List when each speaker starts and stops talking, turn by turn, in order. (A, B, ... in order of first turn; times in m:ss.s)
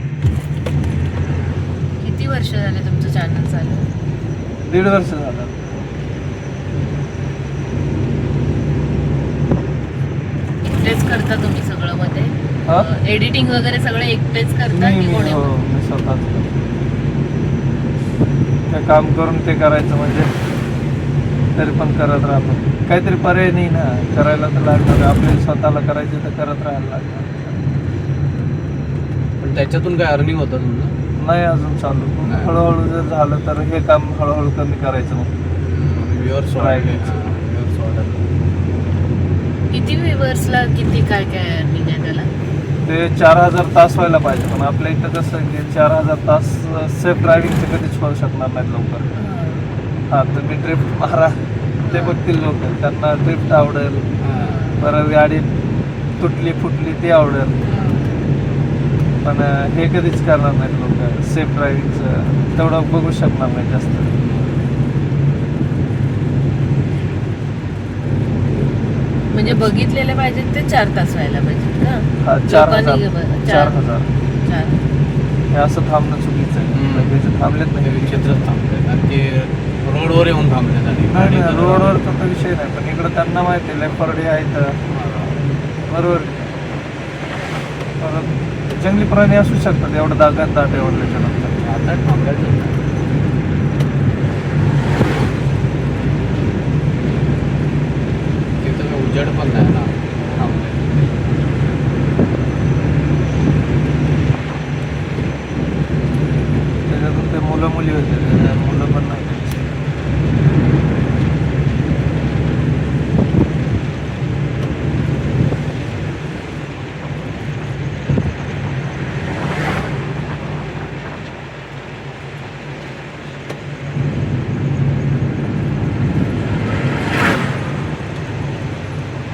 0:02.0-0:03.8 A
0:04.7-0:05.6 B
0:10.6-0:15.5 A
0:14.7-0:16.5 B
0:18.7-0:20.4 B
0:21.6-0:27.6 B
0:29.4-0:30.9 C
0:31.2-0:35.3 B
0:32.3-0:32.6 C
0:35.6-0:38.3 C
0:36.6-0:37.1 B
0:39.7-0:42.3 A
0:42.8-0:49.0 B
0:49.1-0:49.7 A
0:50.1-0:54.1 B
0:51.8-0:52.2 A
0:54.2-0:54.7 C
0:54.4-0:54.8 A
0:54.8-0:55.5 B
0:56.2-0:57.6 B
0:57.7-0:58.1 C
0:57.7-0:58.2 A
0:59.2-1:04.1 B
1:04.2-1:04.7 C
1:09.3-1:13.8 A
1:12.2-1:14.1 B
1:14.4-1:14.8 A
1:15.5-1:18.5 B
1:16.7-1:17.2 C
1:17.8-1:22.0 C
1:21.1-1:24.8 B
1:24.9-1:25.4 C
1:25.9-1:26.4 B
1:28.0-1:31.6 B
1:30.7-1:32.8 C
1:38.6-1:40.9 C
1:46.9-1:49.6 B
1:48.3-1:48.6 C